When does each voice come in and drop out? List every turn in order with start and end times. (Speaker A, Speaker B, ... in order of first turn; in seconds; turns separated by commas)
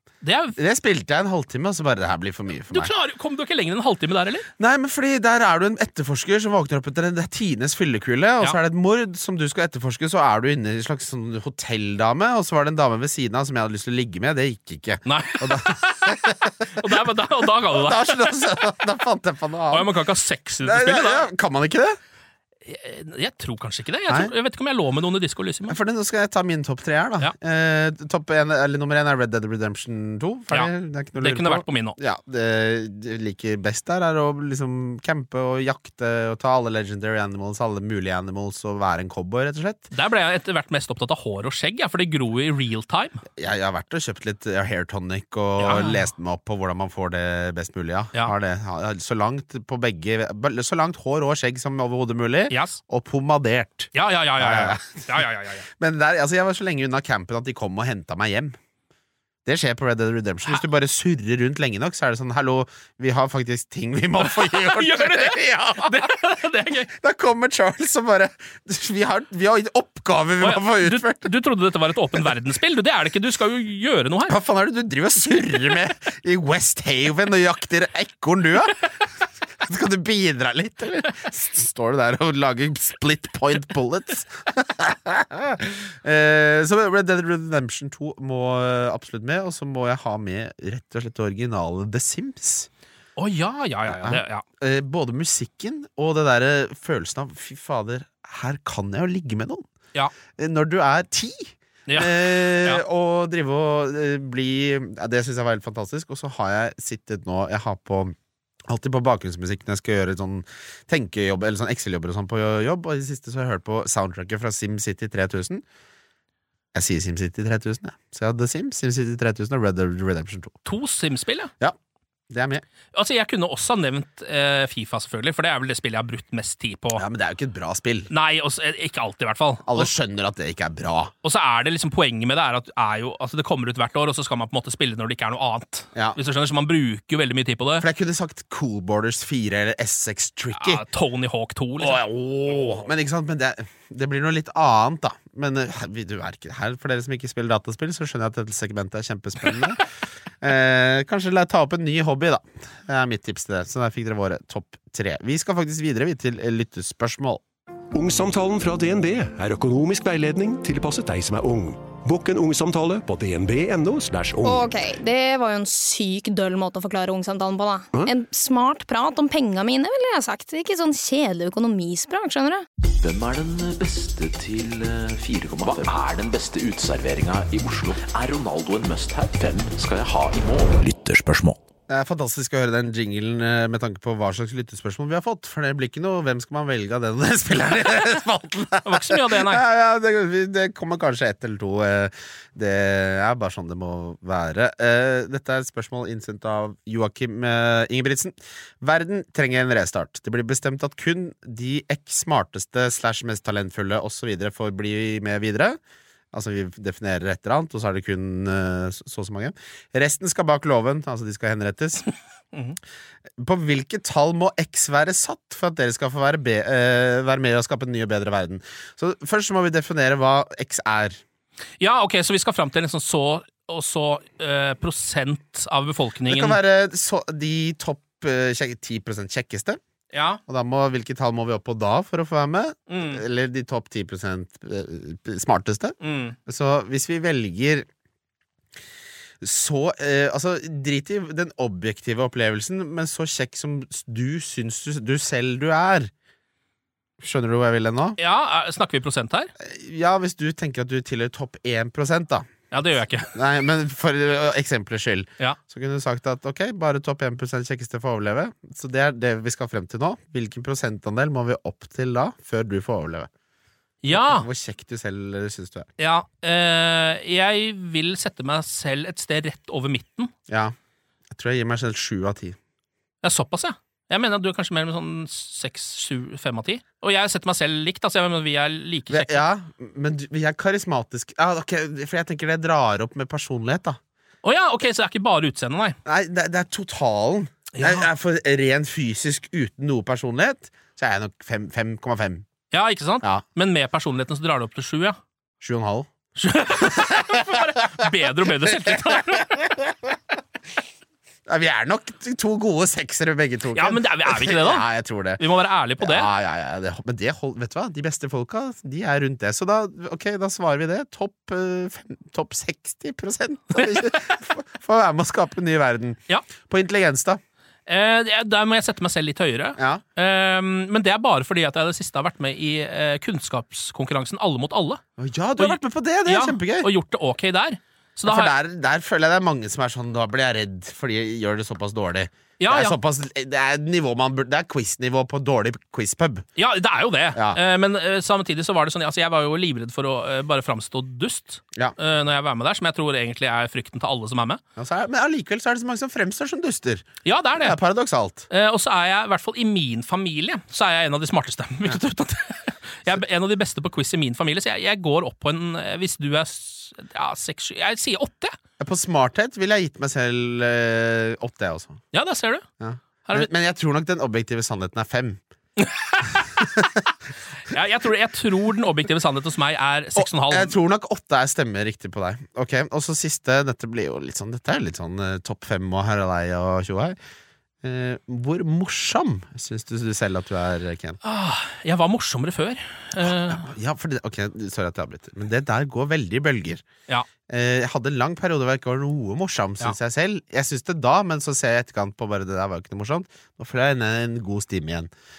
Speaker A: 0.2-0.6, Speaker B: 0.6-2.9, Speaker A: 2.7-4.5, Speaker B: 4.6-19.9, Speaker A: 15.1-18.4, Speaker A: 19.7-21.3, Speaker B: 20.6-22.0, Speaker A: 22.6-25.8, Speaker B: 25.7-39.9, Speaker A: 30.5-32.0, Speaker A: 39.9-43.2, Speaker B: 43.4-55.2, Speaker A: 45.6-46.0, Speaker A: 52.5-52.8, Speaker A: 53.9-55.6, Speaker B: 55.8-58.6, Speaker B: 59.4-66.2, Speaker A: 64.2-66.9, Speaker B: 66.9-71.3, Speaker A: 70.4-74.3, Speaker B: 74.3-78.9, Speaker B: 79.6-92.7, Speaker A: 93.2-94.4, Speaker B: 93.9-99.7, Speaker B: 100.3-108.1, Speaker A: 101.9-102.8, Speaker B: 108.7-115.6, Speaker B: 116.7-120.5, Speaker A: 120.6-121.5, Speaker B: 122.3-122.6, Speaker A: 122.9-127.0, Speaker B: 126.9-128.1, Speaker A: 128.1-129.9, Speaker B: 129.7-131.1, Speaker A: 131.2-137.8, Speaker B: 137.8-140.8, Speaker A: 140.5-142.0, Speaker B: 141.8-149.9, Speaker B: 150.4-157.4, Speaker C: 157.9-164.7, Speaker D: 164.4-172.6, Speaker E: 172.9-181.6, Speaker B: 181.9-205.8, Speaker A: 188.8-189.6, Speaker B: 206.3-212.1, Speaker B: 213.4-221.2, Speaker A: 221.8-226.6, Speaker B: 226.3-229.8, Speaker A: 230.1-230.4, Speaker B: 230.5-235.9, Speaker A: 232.9-233.2, Speaker A: 236.0-236.3, Speaker B: 236.4-237.9, Speaker B: 239.4-246.1, Speaker B: 247.2-248.2, Speaker A: 248.2-249.5, Speaker B: 249.6-252.5, Speaker A: 252.7-253.3, Speaker B: 253.3-263.3, Speaker A: 264.0-264.5, Speaker B: 264.1-265.9, Speaker A: 266.0-270.3, Speaker B: 270.5-270.7, Speaker B: 271.3-272.6, Speaker A: 273.2-279.4, Speaker B: 279.1-284.0, Speaker A: 284.4-286.0, Speaker B: 286.0-292.4, Speaker A: 287.7-288.0, Speaker A: 292.7-295.2, Speaker B: 295.6-296.1, Speaker A: 296.4-299.5, Speaker B: 296.8-300.1, Speaker B: 301.5-305.4, Speaker A: 303.7-306.3, Speaker B: 306.0-317.4, Speaker A: 317.9-325.0, Speaker B: 319.8-320.0, Speaker B: 325.2-326.9, Speaker A: 325.6-328.5, Speaker B: 328.2-336.4, Speaker A: 332.6-332.9, Speaker A: 336.6-344.6, Speaker B: 337.3-337.6, Speaker B: 344.8-348.5, Speaker A: 347.2-347.8, Speaker A: 348.5-358.6, Speaker B: 358.8-362.0, Speaker A: 362.1-362.6, Speaker B: 362.8-365.4, Speaker A: 365.8-366.6, Speaker B: 366.6-366.9, Speaker A: 367.7-370.7, Speaker B: 370.1-377.2, Speaker B: 377.8-381.2, Speaker A: 381.2-383.7, Speaker B: 383.2-386.8, Speaker B: 387.5-395.1